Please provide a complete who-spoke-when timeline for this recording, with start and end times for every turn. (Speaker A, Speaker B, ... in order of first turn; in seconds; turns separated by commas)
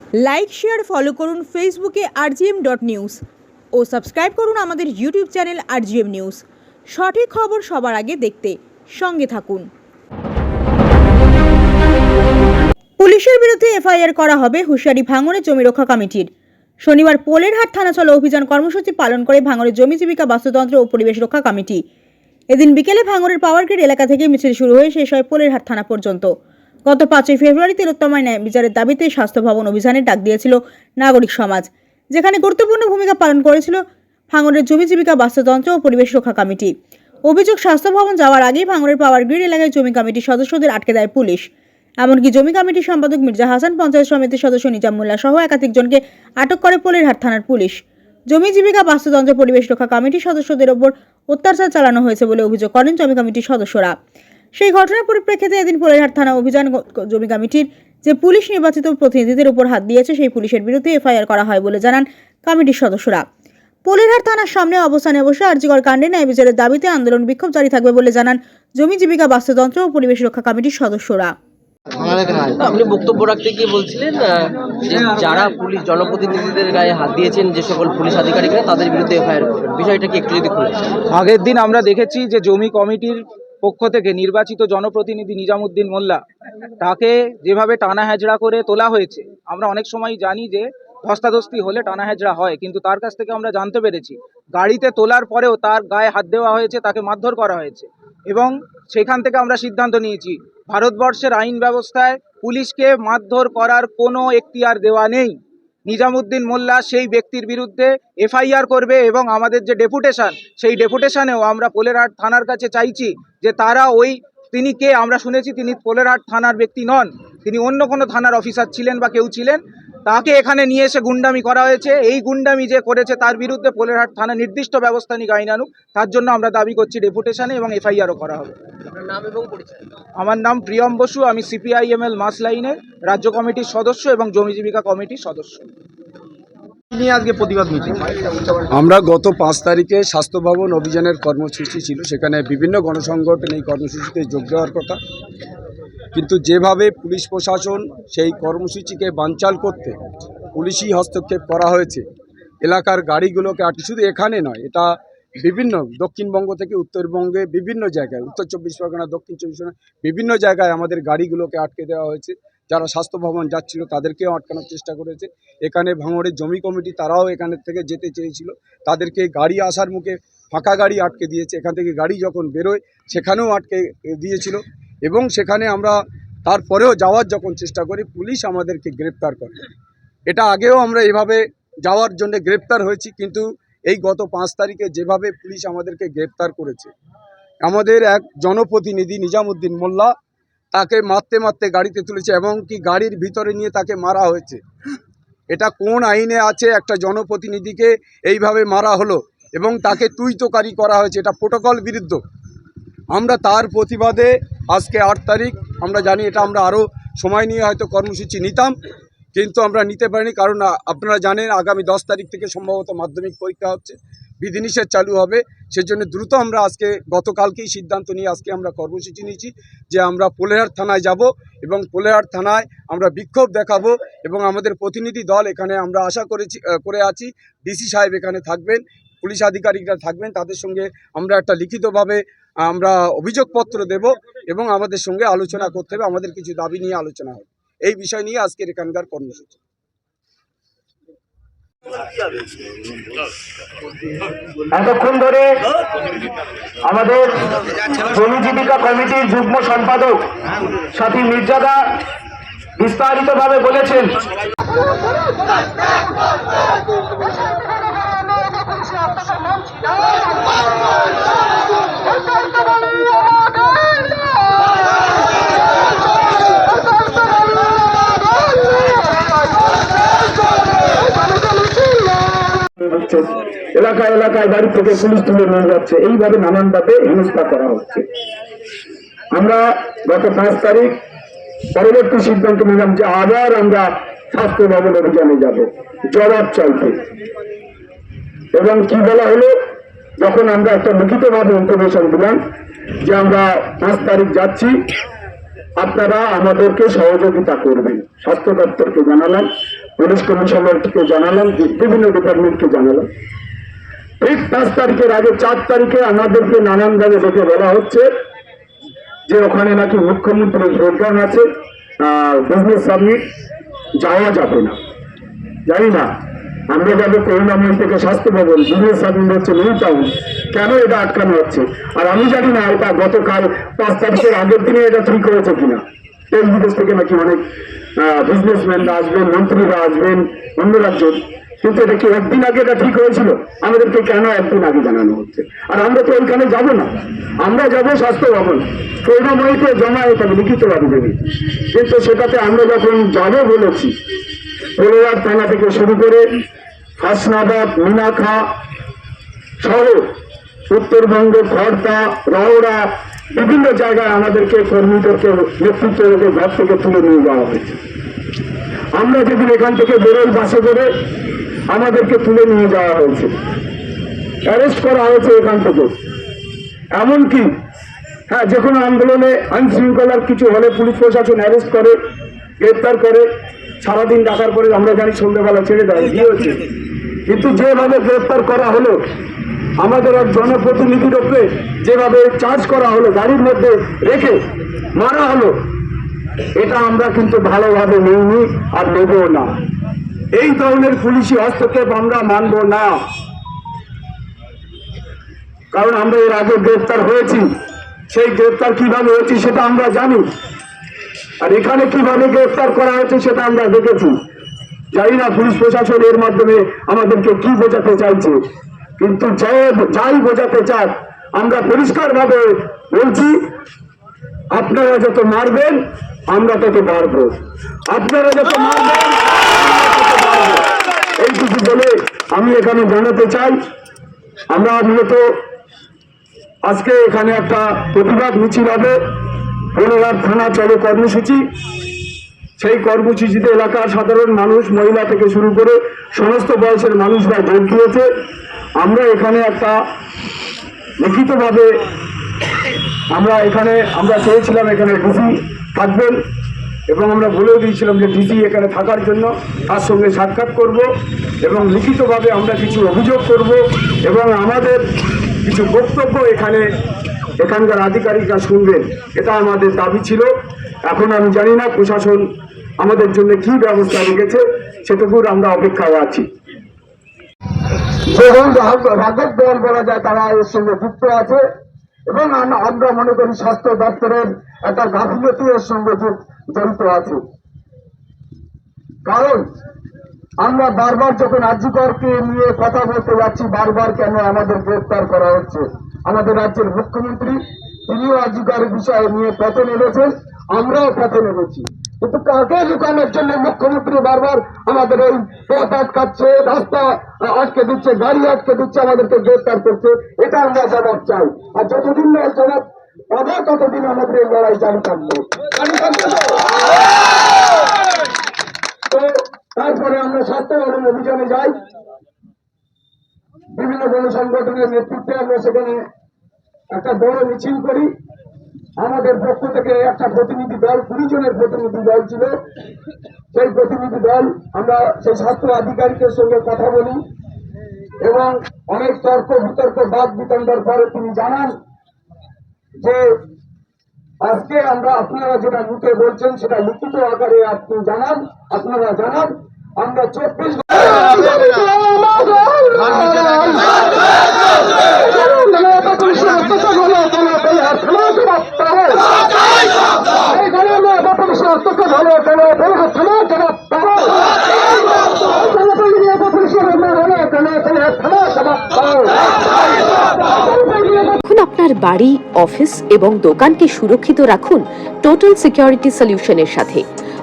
Speaker A: 0.2-3.2, Speaker A: 3.7-9.7, Speaker A: 13.0-16.3, Speaker A: 16.8-21.8, Speaker A: 22.5-26.3, Speaker A: 26.9-36.7, Speaker A: 37.3-41.5, Speaker A: 42.0-54.0, Speaker A: 54.6-63.2, Speaker A: 63.9-71.3, Speaker B: 72.0-80.8, Speaker C: 81.1-86.2, Speaker C: 86.8-105.4, Speaker C: 105.9-128.6, Speaker B: 129.1-129.6, Speaker C: 130.2-135.7, Speaker B: 136.9-137.5, Speaker D: 138.8-143.3, Speaker E: 139.6-144.9, Speaker E: 146.2-149.9, Speaker D: 147.1-147.5, Speaker E: 150.6-152.0, Speaker E: 152.6-154.8, Speaker E: 155.4-168.5, Speaker D: 158.8-159.1, Speaker D: 160.4-160.7, Speaker D: 165.7-167.1, Speaker D: 167.8-170.1, Speaker E: 169.0-170.0, Speaker E: 170.6-172.7, Speaker D: 170.7-173.7, Speaker D: 175.1-175.9, Speaker E: 176.5-179.4, Speaker D: 177.4-179.5, Speaker E: 180.3-181.3, Speaker D: 180.6-181.3, Speaker E: 181.9-183.4, Speaker E: 183.9-186.9, Speaker D: 184.9-185.7, Speaker E: 187.7-189.9, Speaker D: 189.7-190.0, Speaker E: 190.8-194.6, Speaker E: 195.5-199.1, Speaker E: 199.6-202.2, Speaker E: 203.2-208.7, Speaker D: 203.4-203.9, Speaker E: 209.4-221.2, Speaker D: 211.2-211.5, Speaker E: 221.7-232.1, Speaker D: 225.3-226.0, Speaker E: 232.7-239.5, Speaker D: 234.9-235.2, Speaker D: 244.7-245.5, Speaker D: 246.9-247.5, Speaker D: 248.1-250.2, Speaker D: 250.9-251.8, Speaker D: 252.8-254.2, Speaker D: 272.8-278.1, Speaker D: 279.3-280.9, Speaker D: 281.8-287.0, Speaker D: 288.6-289.6, Speaker D: 290.2-292.4, Speaker D: 293.1-294.8, Speaker D: 295.8-299.5, Speaker D: 300.0-303.1, Speaker D: 304.2-308.1, Speaker D: 309.3-311.4, Speaker D: 312.0-313.2, Speaker D: 314.0-314.8, Speaker D: 315.7-316.1, Speaker D: 316.7-327.4, Speaker D: 328.0-341.2, Speaker D: 341.7-343.9, Speaker D: 344.8-346.3, Speaker D: 347.0-348.4, Speaker D: 349.6-350.0, Speaker D: 350.7-357.8, Speaker D: 359.0-360.9, Speaker D: 361.7-363.3, Speaker D: 364.5-365.9, Speaker D: 366.9-367.5, Speaker D: 368.3-371.9, Speaker D: 372.6-373.3, Speaker D: 373.8-376.6, Speaker D: 377.3-379.0, Speaker D: 379.8-384.4, Speaker D: 385.0-385.5, Speaker D: 386.6-389.5, Speaker D: 390.4-392.9, Speaker D: 395.7-397.4, Speaker D: 398.1-400.2, Speaker D: 401.4-404.1, Speaker D: 404.9-408.4, Speaker D: 409.0-413.4, Speaker D: 414.5-417.4, Speaker D: 417.9-420.6, Speaker D: 421.2-423.6, Speaker D: 424.5-425.2, Speaker D: 426.7-429.0, Speaker D: 429.8-431.4, Speaker D: 432.6-438.1, Speaker D: 438.8-439.8, Speaker D: 441.0-441.7, Speaker D: 443.1-446.2, Speaker D: 446.9-450.9, Speaker D: 451.4-454.8, Speaker D: 455.4-456.6, Speaker D: 457.4-460.3, Speaker D: 460.9-462.3, Speaker D: 462.8-466.3, Speaker D: 468.1-471.4, Speaker D: 472.1-477.2, Speaker D: 479.1-479.4, Speaker D: 480.4-506.4, Speaker D: 508.9-511.5, Speaker D: 513.5-515.8, Speaker D: 516.7-517.9, Speaker D: 518.8-522.4, Speaker D: 523.3-527.0, Speaker D: 528.0-531.6, Speaker D: 534.2-543.7, Speaker D: 545.1-549.0, Speaker D: 550.2-554.2, Speaker D: 555.3-559.2, Speaker D: 560.4-561.1, Speaker F: 561.2-566.8